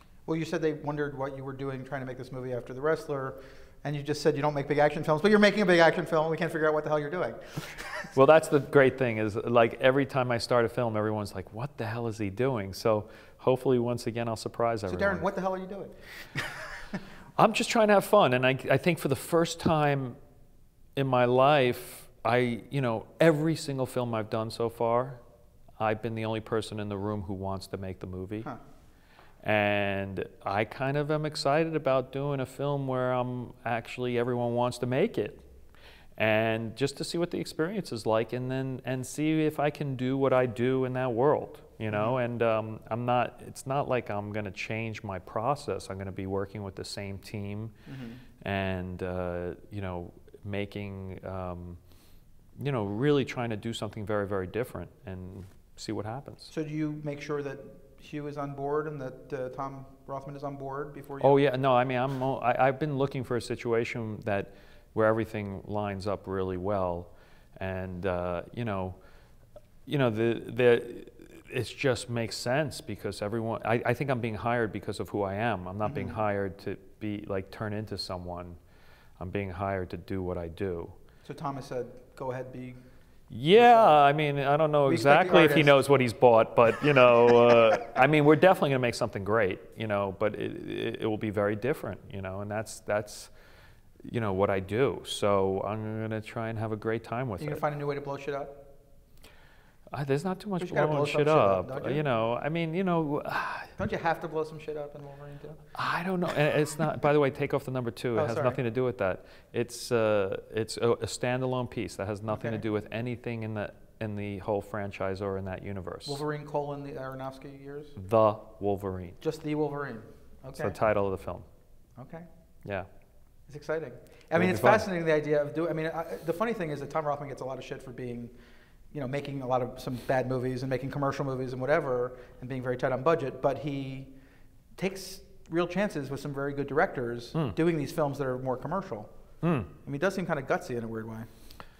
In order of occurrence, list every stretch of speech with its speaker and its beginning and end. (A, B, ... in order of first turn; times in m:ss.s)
0:00.2-0:08.1 A
0:08.1-0:15.2 B
0:14.9-0:16.6 A
0:17.4-0:20.2 B
0:21.0-0:25.2 B
0:25.8-0:28.5 B
0:29.4-0:35.4 B
0:36.2-0:47.7 B
0:41.9-0:42.2 A
0:47.9-0:48.2 A
0:48.4-0:51.8 B
0:52.6-0:56.5 B
0:56.5-1:01.4 A
1:01.2-1:09.0 B
1:09.8-1:18.6 B
1:15.8-1:16.2 A
1:19.2-1:21.0 B
1:21.2-1:22.8 A
1:23.3-1:33.3 B
1:23.5-1:24.0 A
1:24.8-1:25.8 A
1:34.0-1:37.6 B
1:37.4-1:38.7 A
1:39.9-1:43.8 B
1:40.6-1:42.0 A
1:43.8-1:45.7 A
1:45.7-1:56.2 B
1:48.1-1:48.6 A
1:52.3-1:52.6 A
1:56.0-1:58.0 A
1:58.0-1:59.2 B
1:59.2-2:00.8 A
2:00.6-2:01.4 B
2:02.0-2:02.2 A
2:03.5-2:08.3 A
2:04.3-2:04.8 B
2:08.9-2:14.1 A
2:14.8-2:19.1 A
2:19.4-2:19.7 B
2:19.8-2:21.3 A